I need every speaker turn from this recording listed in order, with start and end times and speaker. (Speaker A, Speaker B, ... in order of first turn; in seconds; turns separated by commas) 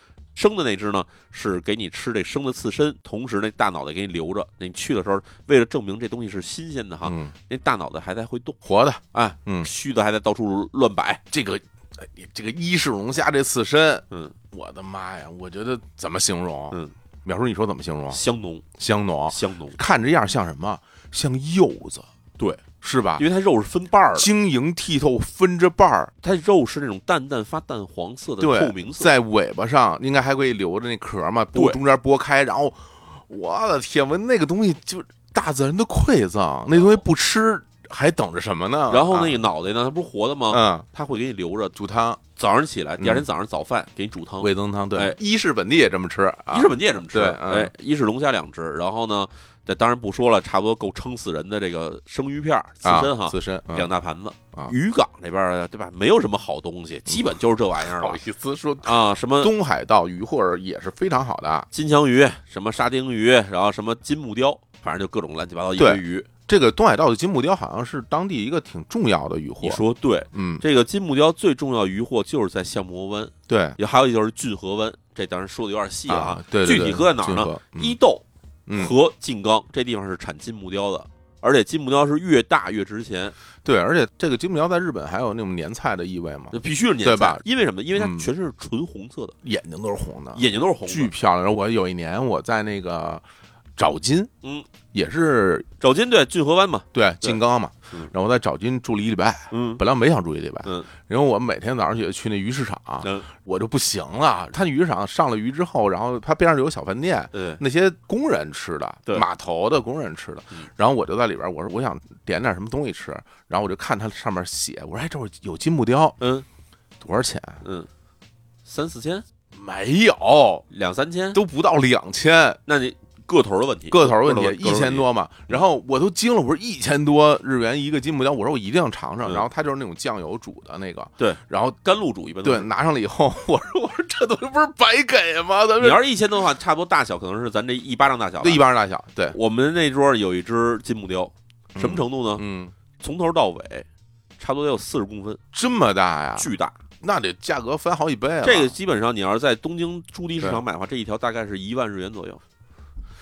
Speaker A: 0.3-8.6, Speaker B: 7.0-7.3, Speaker B: 8.6-9.7, Speaker A: 9.1-11.2, Speaker B: 11.3-18.2, Speaker A: 14.1-14.3, Speaker A: 18.1-18.6, Speaker B: 18.8-22.1, Speaker A: 19.3-19.8, Speaker A: 22.4-22.6, Speaker B: 22.8-23.2, Speaker A: 23.2-24.3, Speaker B: 24.1-26.1, Speaker A: 26.2-29.1, Speaker B: 28.4-39.4, Speaker A: 31.5-31.8, Speaker A: 38.9-41.8, Speaker B: 40.5-40.9, Speaker B: 41.7-42.2, Speaker A: 42.4-45.2, Speaker B: 43.0-43.2, Speaker B: 44.4-47.7, Speaker A: 46.5-58.2, Speaker B: 52.8-53.9, Speaker B: 57.1-61.7, Speaker A: 58.8-59.5, Speaker A: 61.7-66.3, Speaker B: 65.8-70.6, Speaker A: 69.6-83.3, Speaker B: 73.5-73.8, Speaker B: 76.1-78.0, Speaker B: 78.7-78.9, Speaker B: 83.6-87.4, Speaker A: 86.5-89.3, Speaker B: 87.9-88.3, Speaker B: 89.4-93.2, Speaker A: 90.3-91.1, Speaker B: 93.8-94.3, Speaker B: 94.9-95.7, Speaker A: 95.8-98.1, Speaker B: 96.9-116.2, Speaker A: 99.5-99.8, Speaker A: 100.6-100.9, Speaker A: 103.0-103.3, Speaker A: 107.3-107.6, Speaker A: 116.2-116.5, Speaker B: 117.0-117.6, Speaker A: 117.6-117.9, Speaker A: 118.6-119.2, Speaker B: 119.5-120.7, Speaker A: 120.7-121.4, Speaker B: 121.3-122.6, Speaker A: 122.7-125.6, Speaker B: 123.9-131.8, Speaker A: 131.2-132.7, Speaker B: 132.4-136.0, Speaker A: 135.8-138.6, Speaker B: 138.4-139.4, Speaker A: 139.3-142.4, Speaker B: 141.7-142.7, Speaker A: 143.0-143.9, Speaker A: 144.4-145.4, Speaker B: 145.5-146.5, Speaker A: 146.4-146.8, Speaker B: 147.0-148.7, Speaker A: 148.4-152.4